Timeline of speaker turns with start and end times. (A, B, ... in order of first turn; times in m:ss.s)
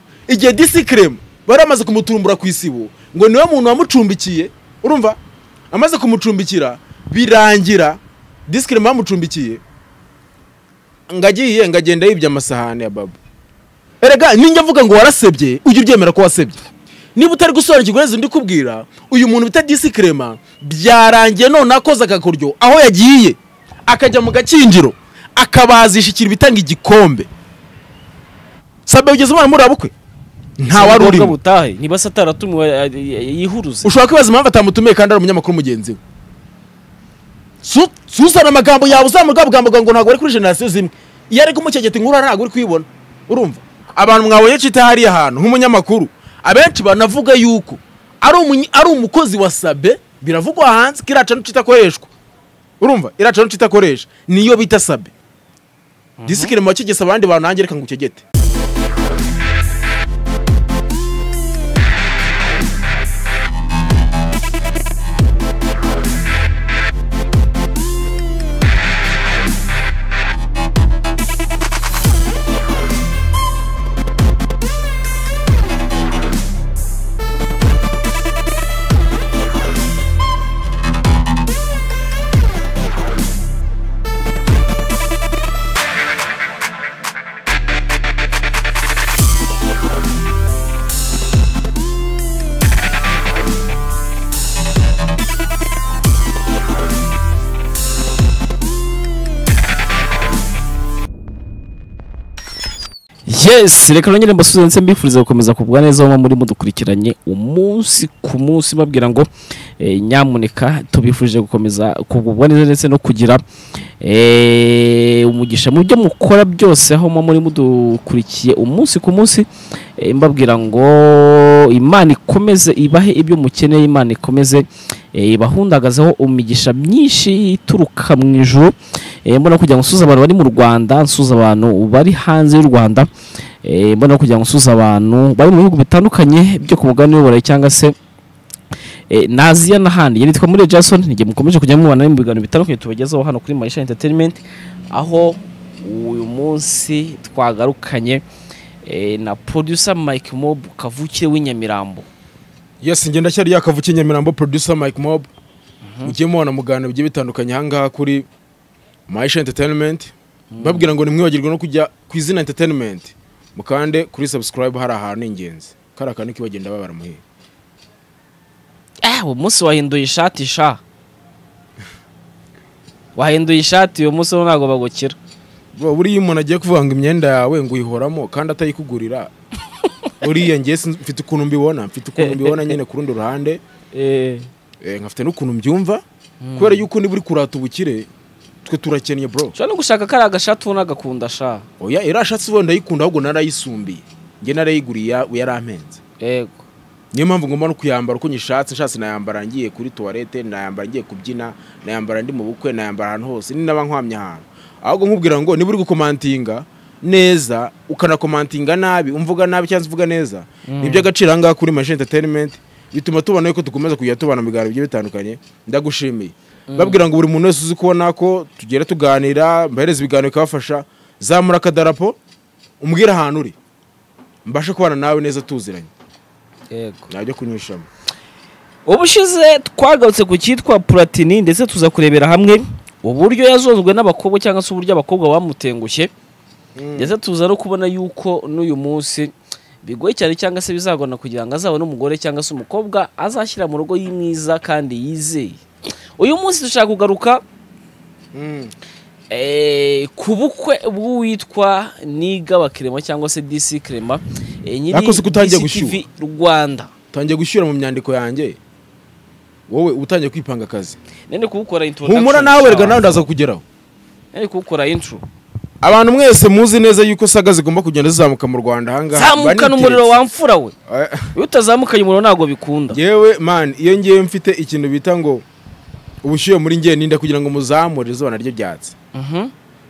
0:00.3-0:05.2 A
0:05.7-0:09.6 A
0:11.1-0:13.2 A
0:14.0-0:16.6 A
0:17.2-0:27.3 A
0:28.9-0:29.9 A
0:30.6-0:31.4 A
0:30.7-0:34.0 B
0:33.8-0:36.0 A
0:37.6-0:52.1 A
0:52.8-0:55.1 A
0:56.2-0:56.5 B
0:56.3-0:58.2 A
1:43.3-1:53.4 B
1:54.0-2:08.7 B
2:09.2-2:13.1 B
2:13.6-2:18.0 B
2:19.1-2:28.2 B
2:28.8-2:32.1 B
2:32.8-2:35.3 A
2:35.8-2:36.2 B
2:36.0-2:38.3 A
2:39.1-2:47.2 A
2:40.5-2:40.9 B
2:49.0-2:50.8 B
2:53.2-2:55.2 B
2:55.8-2:59.3 A
3:00.2-3:03.6 A
3:02.2-3:02.8 B
3:03.9-3:04.5 B
3:04.8-3:06.0 A
3:06.4-3:06.9 B
3:06.6-3:08.1 A
3:08.6-3:09.5 A
3:09.5-3:11.6 B
3:11.8-3:16.0 A
3:16.2-3:16.6 B
3:17.1-3:42.2 A
3:30.7-3:31.1 B
3:36.7-3:37.0 B
3:42.8-3:43.6 A
3:44.5-3:45.9 A
3:46.7-3:47.1 B
3:47.1-3:47.9 A
3:48.9-3:56.1 B
3:56.8-3:57.1 A
3:57.0-4:05.6 B
4:06.2-4:07.4 B
4:08.3-4:08.7 A
4:09.3-4:16.9 B
4:14.9-4:16.0 A
4:17.1-4:18.6 A
4:19.7-4:21.0 A
4:21.3-4:23.3 B
4:22.0-4:23.6 A
4:24.3-4:25.2 B
4:25.8-4:30.2 A
4:29.1-4:30.7 B
4:30.9-4:31.3 A
4:31.4-4:33.0 B
4:32.9-4:35.4 A
4:36.2-4:39.0 A
4:39.1-4:39.5 B